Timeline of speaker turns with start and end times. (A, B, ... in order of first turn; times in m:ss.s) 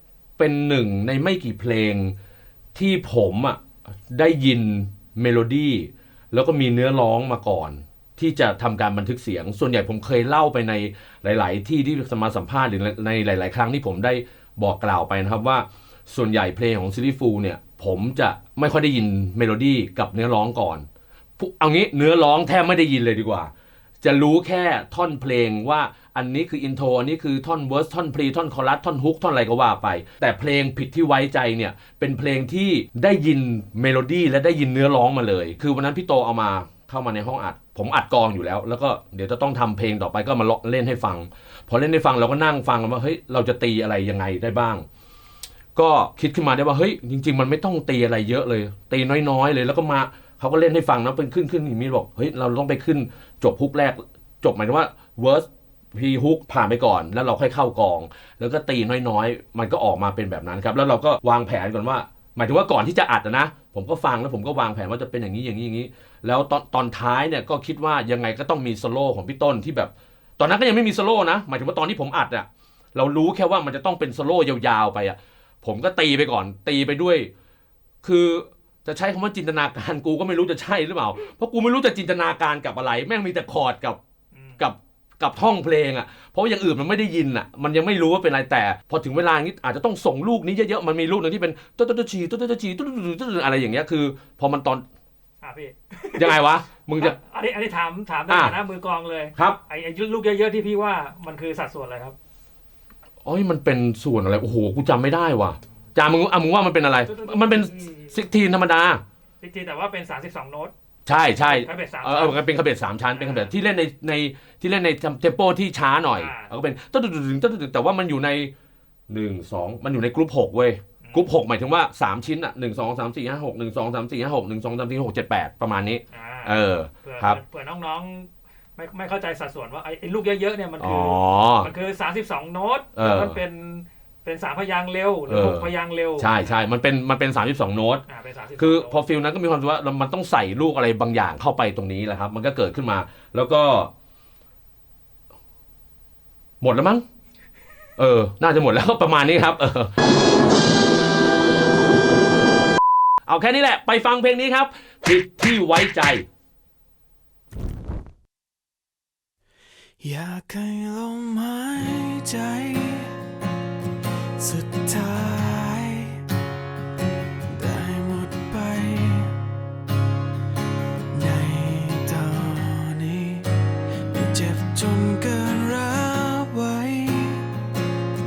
0:00.4-0:02.2 A
0:02.8-0:03.6 A
0:04.1-0:20.9 A
0:21.4-0:23.5 A
0:24.0-0:44.9 A
0:45.8-1:17.3 A
1:18.0-1:24.0 A
1:24.4-1:24.6 B
1:24.6-1:34.8 A
1:35.4-1:36.4 B
1:36.2-1:37.2 A
1:37.0-1:42.2 B
1:38.3-1:38.6 A
1:43.2-1:49.0 A
1:47.1-1:48.1 B
1:49.4-1:50.7 B
1:51.1-1:58.5 A
1:51.4-1:52.4 B
1:53.2-1:53.5 B
1:56.2-1:56.5 B
1:59.1-2:07.4 A
2:01.0-2:01.3 B
2:06.1-2:16.5 B
2:10.8-2:11.7 A
2:13.0-2:13.4 A
2:15.3-2:18.0 A
2:18.1-2:19.0 B
2:18.6-2:23.9 A
2:26.6-2:27.0 A
2:28.0-2:29.9 A
2:33.3-2:36.3 A
2:40.0-2:43.2 C
2:44.4-2:46.2 C
2:47.5-2:49.4 C
2:51.1-2:53.5 C
2:54.1-2:57.5 C